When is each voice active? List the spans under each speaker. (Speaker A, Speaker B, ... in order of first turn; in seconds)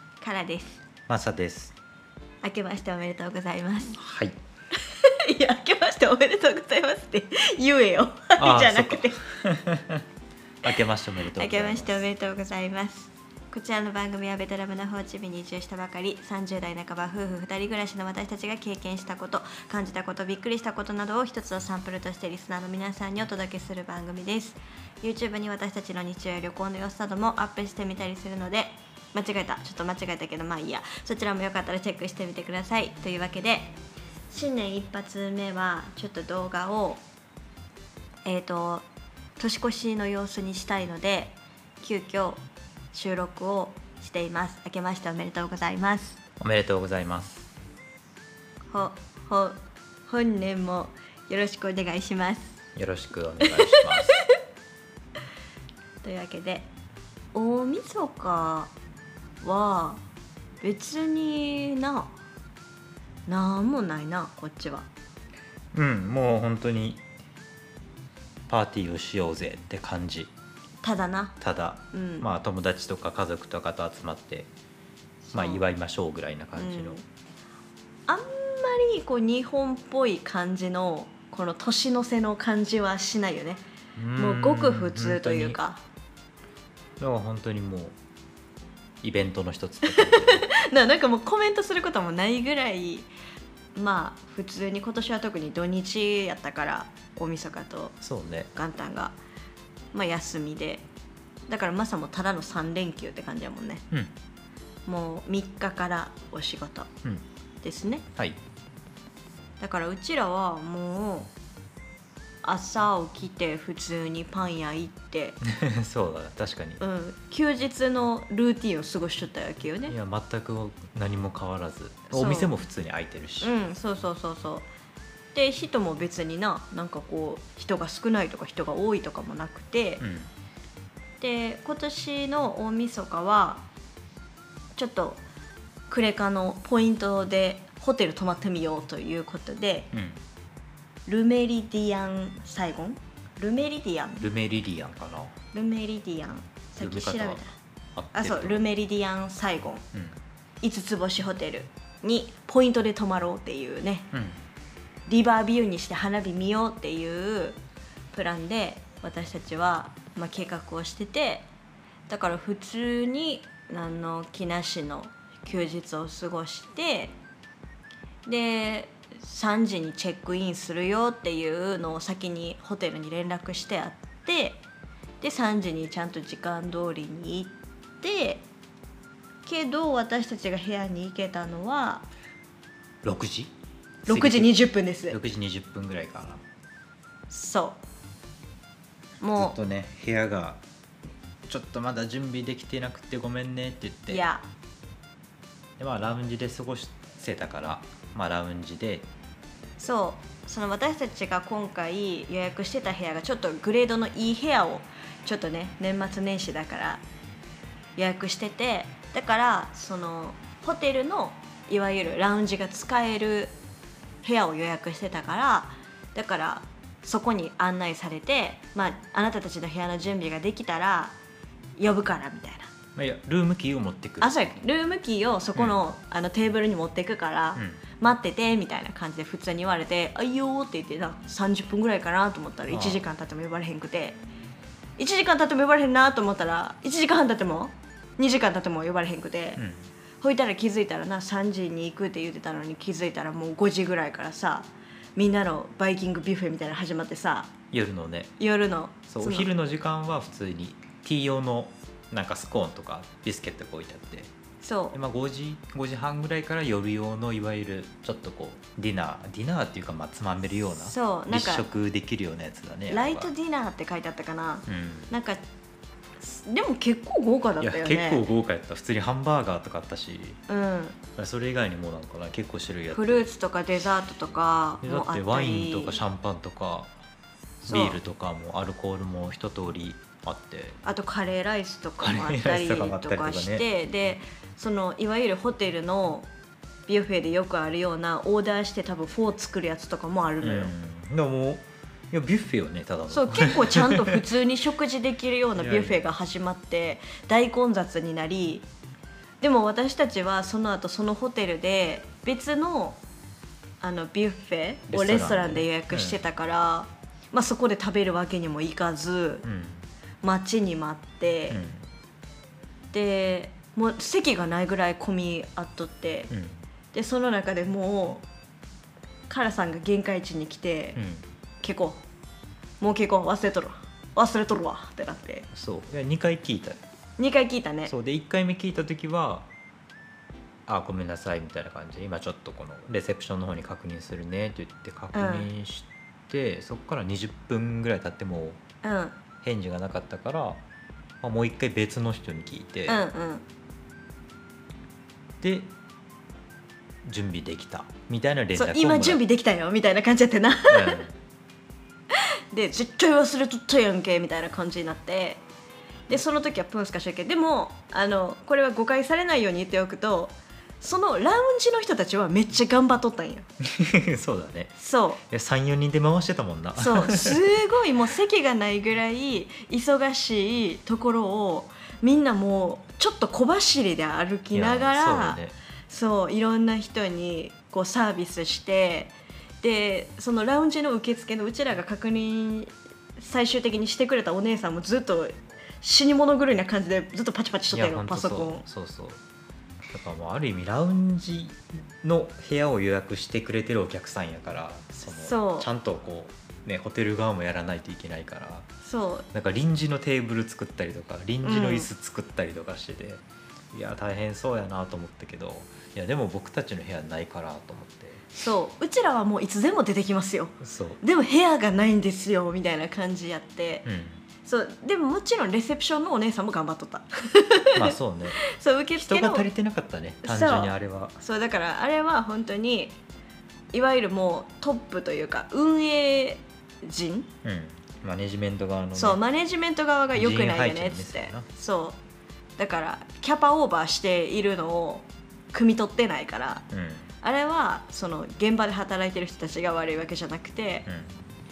Speaker A: 0.2-0.8, 2.4-4.0, 4.8-9.2, 11.3-33.8, 34.3-37.0, 38.2-38.8, 39.4-42.4, 42.9-46.2, 48.7-52.5, 53.4-54.2, 56.0-56.7, 57.3-58.7, 59.4-60.0, 60.6-62.1, 63.3-64.9, 70.8-71.3, 71.9-72.3, 75.2-75.6, 76.5-77.0, 78.1-83.6, 84.2-85.8, 89.8-93.1, 93.8-98.0, 98.5-99.1, 99.9-100.8, 101.5-103.8, 104.8-106.9, 107.6-108.0, 109.6-111.3, 112.4-115.4, 116.8-119.9, 122.1-122.5, 123.4-124.7, 125.3-130.0, 131.2-133.6, 134.8-135.2, 135.9-139.9, 141.1-144.3, 145.5-147.5, 148.1-149.8, 150.6-154.1, 155.1-157.6, 158.1-161.5, 162.1-167.1, 168.2-174.6, 175.2-178.4, 179.4-182.1, 184.1-185.2, 187.3-187.8, 189.2-189.6, 194.1-194.4, 199.8-207.0, 207.9-213.5, 214.2-221.1, 221.8-222.7, 224.2-234.2, 235.0-239.6, 240.2-247.5, 248.4-249.5, 254.6-255.0, 260.8-261.7, 262.9-265.4, 266.2-268.2, 270.5-271.0, 272.9-276.0, 277.6-278.0, 280.8-286.3, 286.9-290.7, 293.1-298.7, 299.4-303.0, 303.8-309.4, 310.2-311.6, 312.9-316.3, 316.9-318.2, 319.3-321.0, 321.6-322.0, 322.8-325.5, 327.2-327.9, 335.1-335.5, 338.8-339.2, 342.9-343.4, 348.5-351.0, 352.1-355.4, 356.1-363.5, 364.8-365.2, 366.8-388.6, 395.1-395.7, 398.8-399.3, 401.4-401.9, 408.3-413.9, 414.4-419.5, 420.2-422.9, 423.7-427.3, 428.9-432.0, 432.6-436.6, 437.2-440.9
Speaker B: 1.1-1.7, 4.0-4.3, 8.4-10.0, 10.6-12.1, 46.4-47.5, 52.7-54.2, 65.7-67.0, 68.5-70.3, 71.4-74.5, 75.3-77.0, 84.0-85.6, 87.0-87.9, 89.0-90.5, 98.0-98.5, 115.4-116.8, 119.9-123.5, 130.0-130.3, 139.9-140.2, 144.2-145.3, 146.8-147.4, 147.9-148.6, 154.1-154.4, 183.0-183.5, 184.1-184.5, 185.1-186.4, 189.4-190.6, 191.5-194.2, 195.8-199.1, 222.9-224.6, 227.6-227.8, 232.7-233.1, 239.6-239.9, 247.7-248.3, 249.1-254.3, 254.9-263.3, 264.7-265.1, 267.6-270.4, 271.2-273.3, 274.8-276.9, 277.7-280.8, 282.0-283.7, 290.4-294.1, 295.6-296.0, 304.9-306.2, 309.4-309.9, 311.5-311.9, 316.3-316.6, 320.9-321.2, 325.5-326.8, 327.9-329.5, 330.7-338.6, 339.4-340.6, 341.2-343.1, 345.4-345.7, 347.0-349.2, 350.7-351.1, 363.6-364.7, 365.3-367.4, 374.5-375.6, 387.7-389.2, 389.9-398.7, 399.3-408.2, 410.6-411.0, 413.9-414.2, 417.7-418.4, 418.9-421.2, 427.4-429.2, 430.1-431.4, 436.7-437.1, 440.9-441.1